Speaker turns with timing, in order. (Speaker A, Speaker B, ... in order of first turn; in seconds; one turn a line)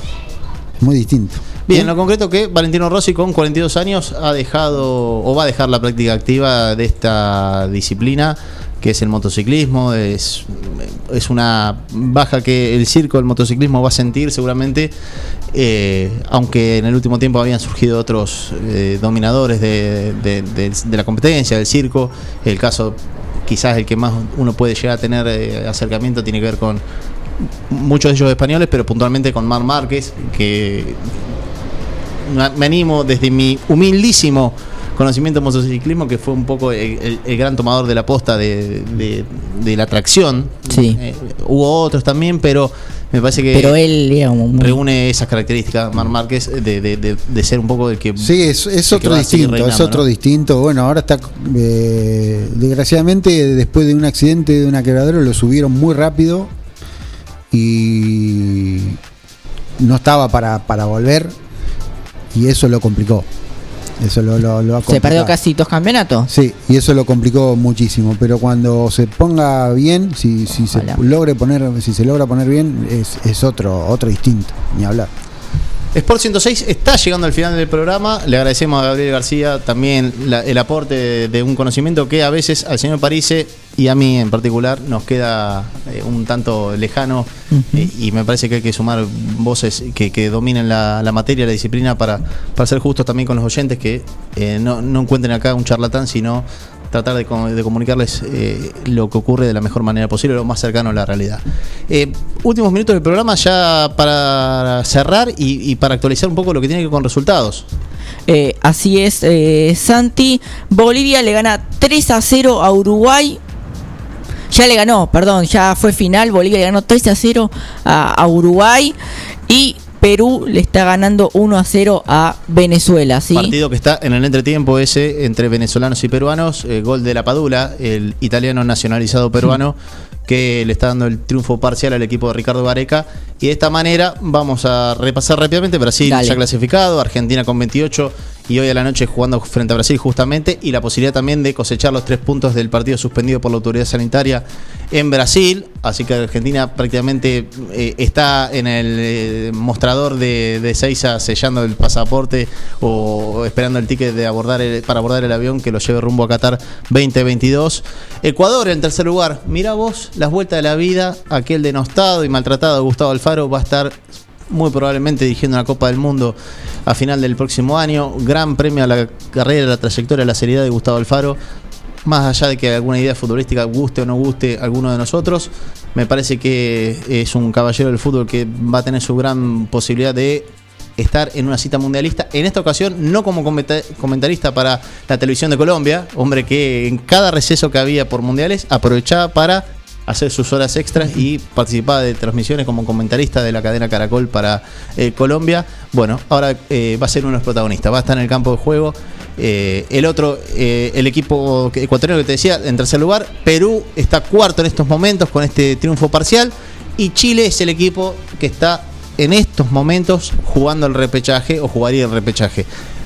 Speaker A: 0.8-1.9
Speaker B: 1.7-14.9
Speaker B: 15.5-26.8
Speaker B: 27.7-31.2
Speaker B: 32.2-43.8
Speaker C: 40.7-41.0
Speaker C: 43.5-44.8
Speaker B: 44.5-48.4
Speaker A: 48.2-56.5
Speaker B: 48.9-50.0
Speaker A: 57.5-59.0
Speaker A: 59.8-61.3
Speaker A: 62.3-63.3
Speaker A: 64.0-65.3
Speaker C: 64.9-66.3
Speaker A: 66.3-75.1
Speaker C: 70.6-71.1
Speaker B: 75.9-107.7
Speaker C: 87.5-87.9
Speaker C: 108.3-113.4
Speaker C: 114.5-119.0
Speaker C: 119.5-123.5
Speaker B: 123.3-164.0
Speaker C: 136.0-136.4
Speaker B: 164.5-171.4
Speaker B: 172.1-212.7